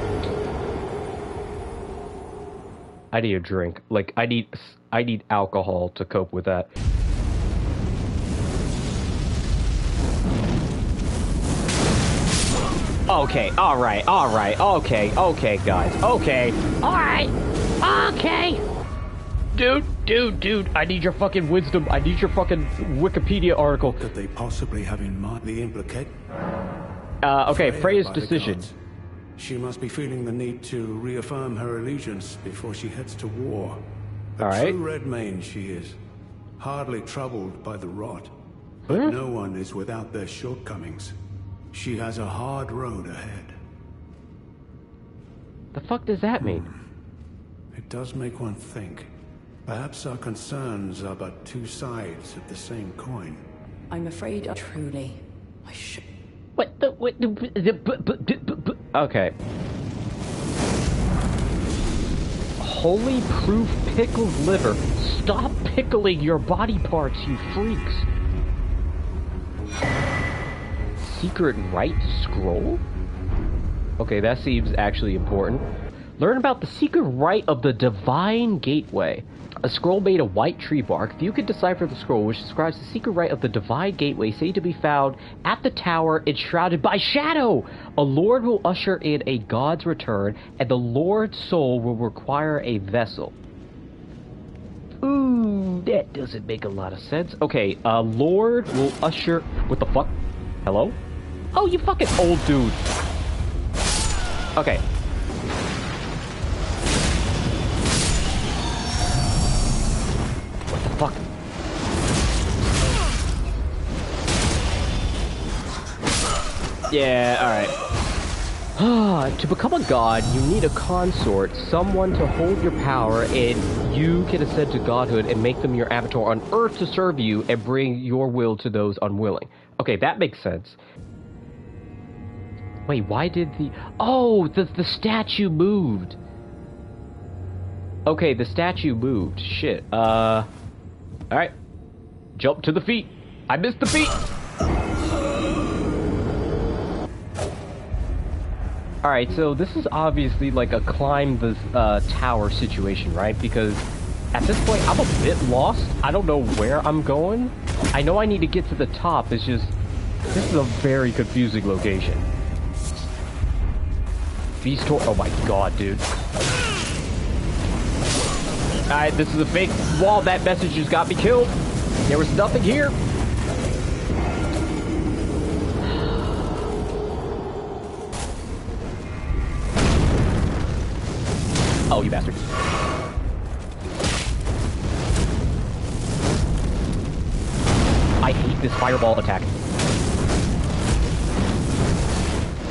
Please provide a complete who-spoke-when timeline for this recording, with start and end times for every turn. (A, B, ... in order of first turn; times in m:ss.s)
0:03.1-0:06.7 A
0:13.1-0:18.6 A
0:19.5-0:24.0 A
0:23.8-0:26.2 B
0:27.2-0:28.7 A
0:27.4-0:28.7 B
0:29.4-0:36.0 B
0:34.4-0:34.8 A
0:36.6-0:38.3 B
0:38.9-0:39.2 A
0:38.9-0:41.1 B
0:41.7-0:43.6 B
0:45.7-0:46.7 A
0:46.4-0:46.8 B
0:47.7-0:49.1 B
0:49.6-0:53.4 B
0:53.9-0:56.0 C
0:56.6-0:59.3 A
1:02.6-1:08.1 A
1:11.0-1:12.8 A
1:14.0-1:15.6 A
1:16.2-1:33.4 A
1:35.0-1:41.0 A
1:41.5-1:42.8 A
1:44.6-1:44.8 A
1:50.7-1:51.2 A
1:56.9-1:57.7 A
1:58.8-2:10.8 A
2:12.9-2:16.2 A
2:18.1-2:20.5 A
2:22.4-2:24.2 A
2:29.0-2:39.7 A
2:40.3-2:42.2 A
2:44.6-2:46.1 A
2:48.9-2:53.0 A
3:01.9-3:02.4 A
3:08.2-3:09.5 A